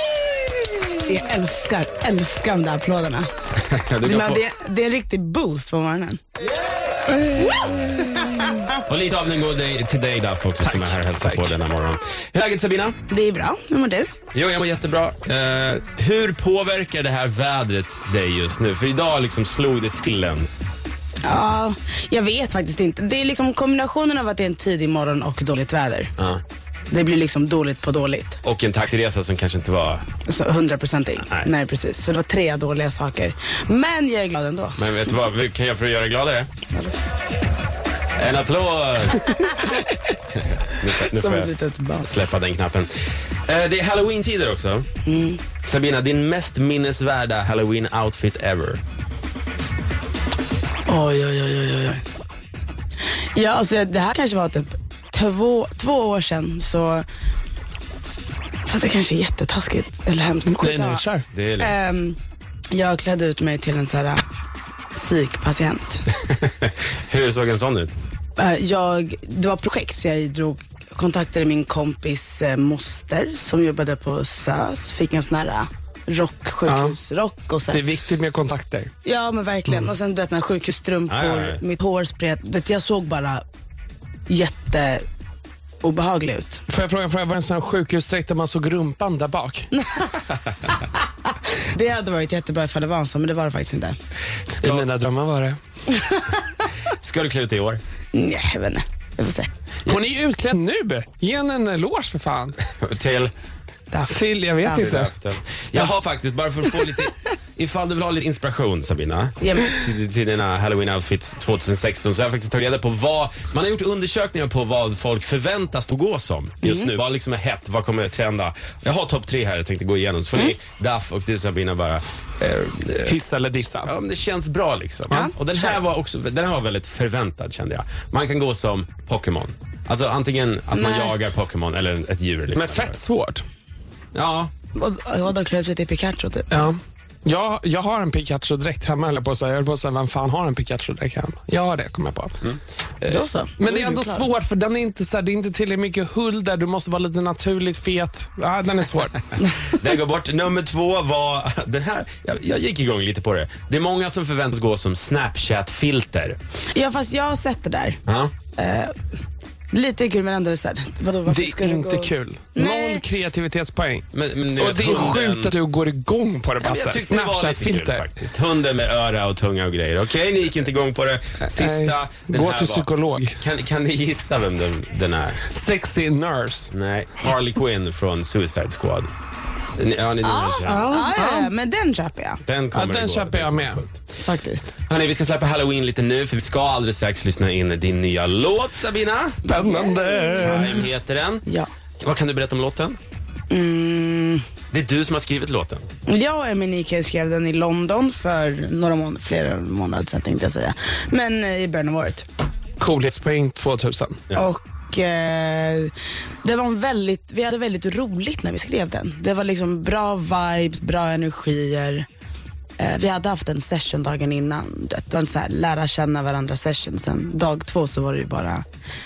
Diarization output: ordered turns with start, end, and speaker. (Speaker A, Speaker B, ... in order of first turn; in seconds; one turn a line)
Speaker A: 1.0-3.3
Speaker B: 3.5-4.4
Speaker A: 4.0-6.2
Speaker A: 7.1-8.8
Speaker B: 8.9-13.0
Speaker C: 10.6-11.5
Speaker A: 13.1-14.1
Speaker B: 14.3-20.5
Speaker A: 21.2-26.1
Speaker B: 26.2-26.4
Speaker A: 26.9-28.4
Speaker B: 28.4-30.1
Speaker A: 30.2-34.8
Speaker B: 34.8-36.5
Speaker B: 38.2-39.4
Speaker A: 39.4-39.7
Speaker B: 40.3-44.9
Speaker A: 40.9-42.1
Speaker A: 45.0-45.4
Speaker B: 45.6-48.8
Speaker A: 50.9-52.0
Speaker A: 53.2-57.0
Speaker A: 58.6-61.0
Speaker C: 60.5-61.2
Speaker B: 61.3-61.7
Speaker A: 61.6-62.2
Speaker A: 62.7-64.2
Speaker A: 64.9-66.0
Speaker B: 66.2-67.9
Speaker A: 68.4-77.8
Speaker C: 76.7-77.0
Speaker C: 77.7-78.9
Speaker A: 79.0-83.4
Speaker B: 81.1-81.6
Speaker A: 84.3-85.0
Speaker A: 85.8-86.6
Speaker C: 86.7-89.7
Speaker A: 89.7-94.0
Speaker B: 94.5-94.8
Speaker C: 94.6-95.6
Speaker A: 95.9-96.5
Speaker B: 96.9-97.8
Speaker A: 98.1-99.5
Speaker C: 99.8-102.5
Speaker B: 102.7-103.3
Speaker A: 103.9-105.1
Speaker C: 104.1-105.1
Speaker B: 104.7-123.2
Speaker A: 109.4-109.8
Speaker A: 116.6-116.9
Speaker C: 123.0-123.9
Speaker B: 123.8-133.0
Speaker A: 125.1-125.8
Speaker A: 130.7-131.2
Speaker C: 132.5-133.4
Speaker B: 134.1-134.5
Speaker A: 134.7-136.7
Speaker C: 136.5-142.4
Speaker C: 143.0-149.2
Speaker A: 143.1-144.3
Speaker B: 149.7-156.4
Speaker A: 156.7-158.0
Speaker B: 158.1-158.3
Speaker A: 158.6-158.9
Speaker A: 159.7-163.0
Speaker C: 161.2-164.0
Speaker B: 164.1-165.5
Speaker C: 164.6-168.1
Speaker B: 166.6-175.4
Speaker C: 171.4-173.4
Speaker C: 175.5-176.7
Speaker B: 176.7-179.1
Speaker B: 179.8-180.9
Speaker A: 180.2-182.4
Speaker C: 180.6-181.5
Speaker B: 182.4-184.1
Speaker C: 182.7-183.8
Speaker A: 184.2-184.7
Speaker B: 184.8-189.6
Speaker C: 189.4-190.8
Speaker A: 189.4-190.7
Speaker B: 190.3-191.4
Speaker B: 192.0-193.0
Speaker A: 193.5-194.4
Speaker B: 194.7-195.9
Speaker A: 196.1-202.3
Speaker C: 202.8-204.2
Speaker A: 204.3-205.9
Speaker A: 206.4-212.1
Speaker A: 212.8-218.6